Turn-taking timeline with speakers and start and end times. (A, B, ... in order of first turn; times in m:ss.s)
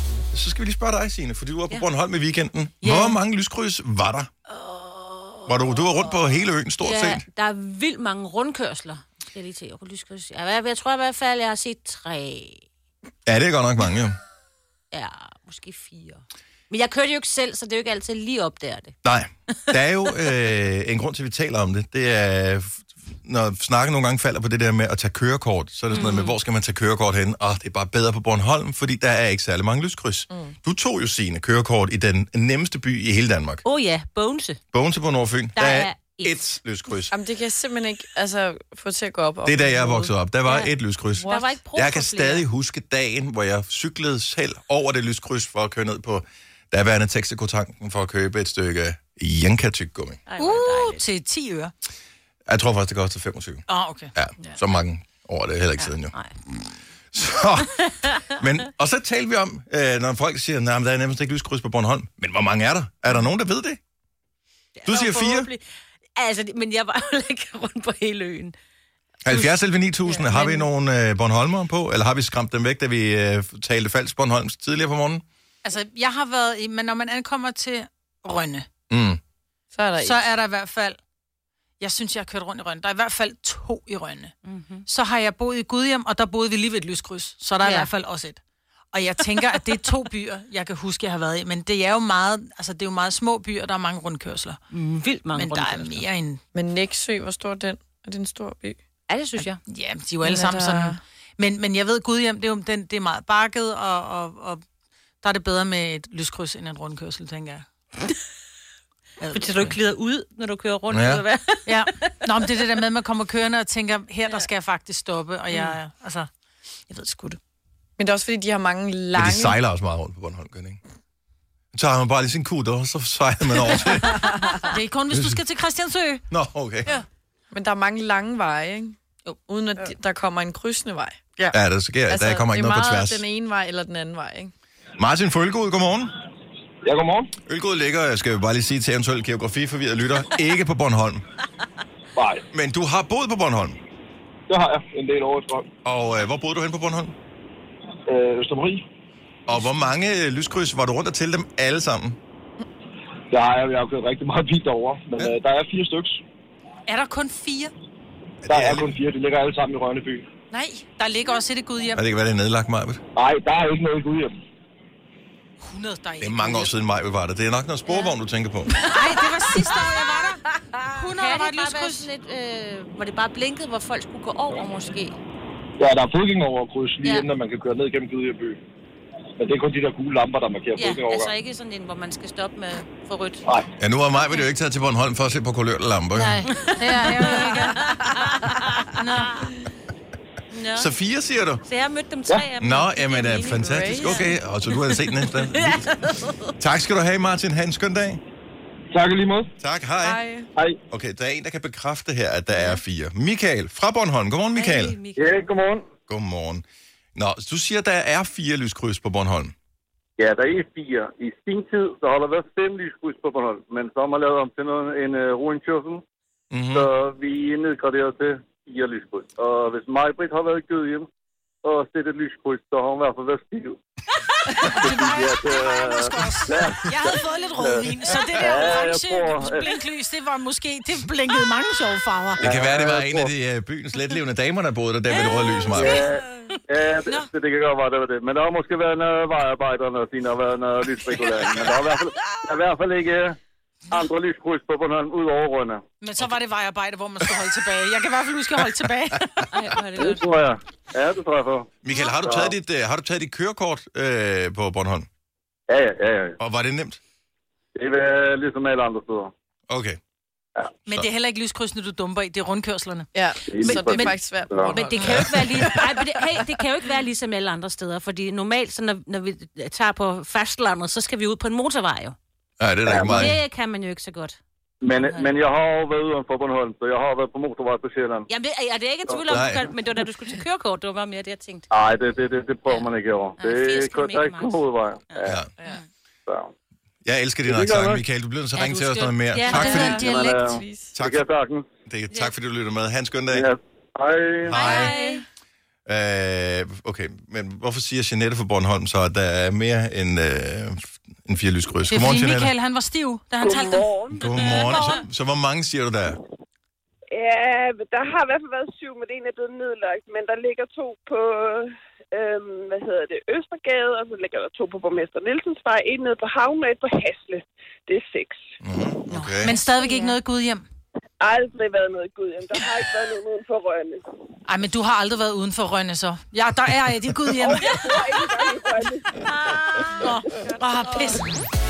0:00.3-0:04.3 A
0:02.8-0:03.2 B
0:04.6-0:05.5 B
0:05.5-0:07.2 A
0:06.8-0:12.6 B
0:13.2-0:14.2 A
0:14.9-0:18.9 B
0:19.0-0:33.6 A
0:25.9-0:26.4 B
0:33.6-0:34.6 B
0:34.7-0:37.1 A
0:35.5-0:36.4 B
0:37.1-0:40.2 C
0:39.4-0:50.2 A
0:40.4-0:40.7 B
0:41.1-0:41.5 C
0:41.2-0:42.4 B
0:50.2-0:51.0 B
0:50.4-0:51.7 D
0:52.5-0:56.2 A
0:53.7-0:54.6 D
0:55.8-0:56.3 B
0:57.1-1:03.8 A
1:04.8-1:05.6 B
1:04.8-1:05.5 A
1:06.2-1:08.5 B
1:09.2-1:15.2 A
1:15.6-1:18.7 D
1:18.9-1:19.2 A
1:19.7-1:20.3 C
1:20.0-1:21.0 D
1:21.8-1:24.3 D
1:24.4-1:24.8 B
1:24.8-1:28.4 D
1:27.6-1:27.9 B
1:28.9-1:34.6 D
1:34.7-1:36.0 B
1:35.3-1:36.4 D
1:36.5-1:38.8 C
1:39.1-1:39.6 B
1:39.6-1:44.6 D
1:40.2-1:41.0 C
1:45.2-1:47.7 D
1:49.2-1:49.8 D
1:49.3-1:52.2 B
1:50.9-1:51.2 A
1:51.6-1:56.3 D
1:56.9-1:57.4 D
1:58.0-1:59.6 C
1:59.1-2:00.8 A
2:01.7-2:04.5 A
2:04.1-2:04.6 C
2:04.7-2:06.2 D
2:05.1-2:05.4 A
2:06.3-2:06.9 A
2:07.5-2:14.5 C
2:11.5-2:13.2 A
2:15.0-2:16.1 A
2:16.8-2:17.3 E
2:17.4-2:21.2 A
2:22.2-2:22.4 E
2:22.5-2:23.8 A
2:24.5-2:25.6 E
2:25.8-2:27.1 A
2:28.1-2:28.8 E
2:29.5-2:32.2 A
2:33.3-2:36.2 E
2:36.9-2:37.7 D
2:38.4-2:39.0 A
2:38.5-2:40.3 E
2:40.5-2:42.0 D
2:41.9-2:43.0 A
2:43.2-2:44.3 E
2:45.6-2:46.7 D
2:46.2-2:48.8 A
2:48.8-2:52.1 D
2:50.7-2:55.2 B
2:55.8-2:58.6 E
2:59.4-3:01.3 E
3:00.7-3:03.4 B
3:03.8-3:06.5 A
3:04.2-3:04.4 B
3:06.1-3:09.5 B
3:06.7-3:08.0 D
3:08.9-3:09.3 D
3:10.5-3:10.9 B
3:10.8-3:11.6 A
3:11.6-3:16.5 B
3:12.6-3:15.8 A
3:13.5-3:14.3 C
3:16.6-3:18.2 A
3:18.9-3:19.5 E
3:19.6-3:20.2 A
3:20.0-3:20.5 C
3:20.9-3:25.0 A
3:24.5-3:25.2 B
3:25.2-3:25.9 F
3:26.1-3:26.6 A
3:27.2-3:29.5 A
3:30.2-3:36.0 F
3:36.5-3:36.9 A
3:36.7-3:41.0 F
3:41.6-3:43.8 F
3:44.5-3:52.4 D
3:44.7-3:49.7 F
3:52.4-3:53.3 F
3:52.4-3:56.0 A
3:55.1-3:56.2 B
3:55.7-4:03.4 F
4:03.9-4:05.8 F
4:06.0-4:09.5 D
4:09.5-4:10.3 B
4:10.0-4:11.7 F
4:11.8-4:15.1 A
4:12.2-4:12.5 F
4:15.7-4:16.4 F
4:16.4-4:17.0 A
4:17.8-4:19.3 F
4:19.7-4:20.0 A
4:20.8-4:24.1 D
4:23.1-4:26.5 C
4:23.5-4:24.7 F
4:24.7-4:32.2 B
4:32.6-4:33.4 A
4:32.9-4:33.3 F
4:33.1-4:34.4 B
4:34.8-4:38.3 F
4:35.0-4:35.3 D
4:38.3-4:41.7 B
4:39.1-4:39.5 F
4:39.3-4:39.7 A
4:41.7-4:45.4 F
4:42.6-4:45.3 B
4:47.0-4:50.0 A
4:47.5-4:48.0 F
4:48.6-4:50.6 D
4:49.3-4:50.0 B
4:49.6-4:51.0 C
4:50.0-4:51.6 F
4:51.9-4:53.4 A
4:53.3-4:54.6 F
4:54.5-4:55.0 A
4:54.5-4:55.2 B
4:54.7-4:55.1 C
4:55.9-5:02.5 A
5:01.9-5:03.9 D
5:03.4-5:04.8 G
5:04.2-5:06.2 A
5:04.3-5:05.0 B
5:07.1-5:18.4 G
5:18.6-5:19.5 A
5:19.1-5:20.6 D
5:21.2-5:24.0 G
5:24.4-5:28.1 D
5:27.3-5:29.6 G
5:30.0-5:31.3 D